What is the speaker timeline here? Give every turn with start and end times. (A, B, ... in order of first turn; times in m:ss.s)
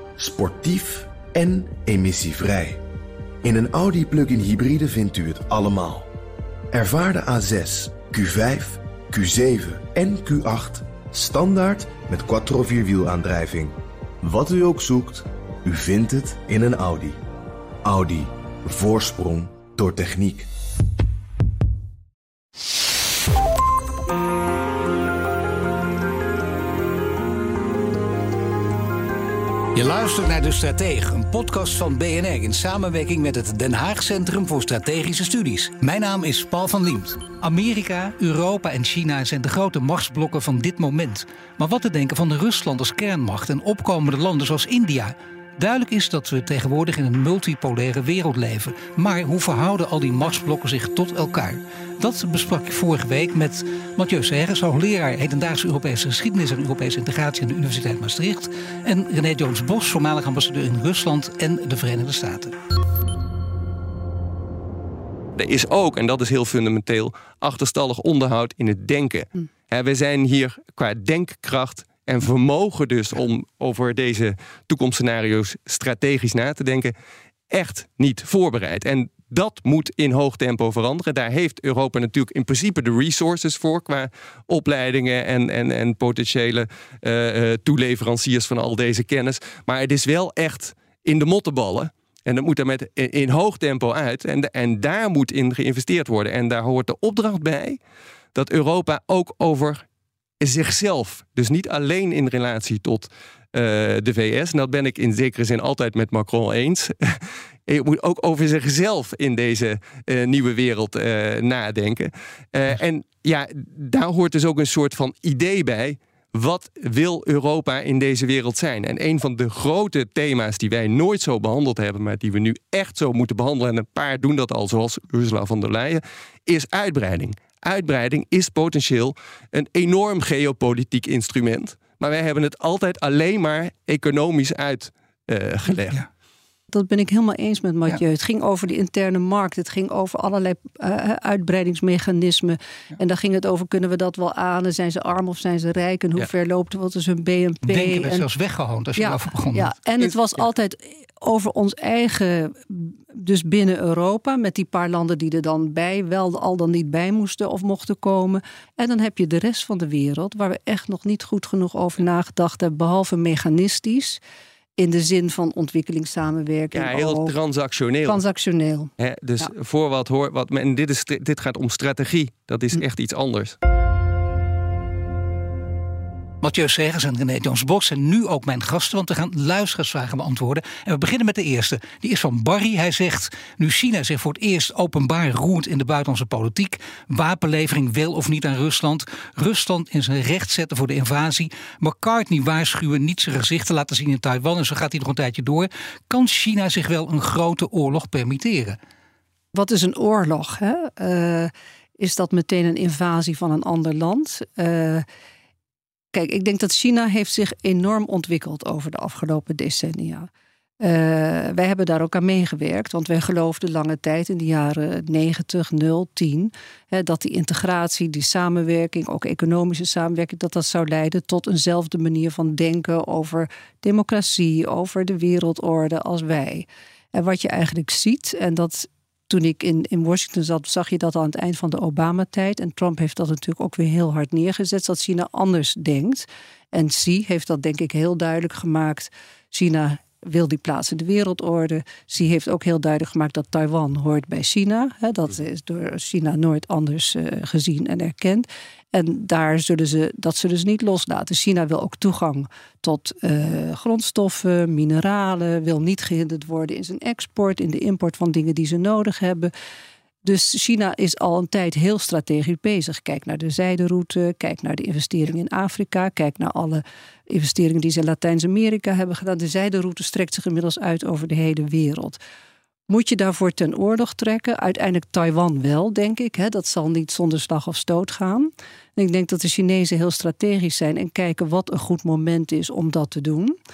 0:00.2-0:02.8 A
0:03.4-0:06.1 A
0:06.7-0:17.2 A
0:17.8-0:20.5 A
0:29.8-1:02.6 B
1:05.4-1:16.9 C
1:17.5-1:37.8 C
1:38.4-1:39.8 C
1:40.4-2:16.1 C
2:16.7-2:28.3 D
2:27.6-2:29.7 B
2:29.0-2:44.2 D
2:44.8-2:47.4 D
2:46.7-2:48.2 C
2:48.1-2:49.5 D
2:49.0-2:53.6 C
2:56.4-3:18.8 B
3:19.5-3:25.0 D
3:26.1-3:30.3 D
3:30.8-4:19.5 D
4:20.2-4:32.2 D
4:32.9-4:43.6 D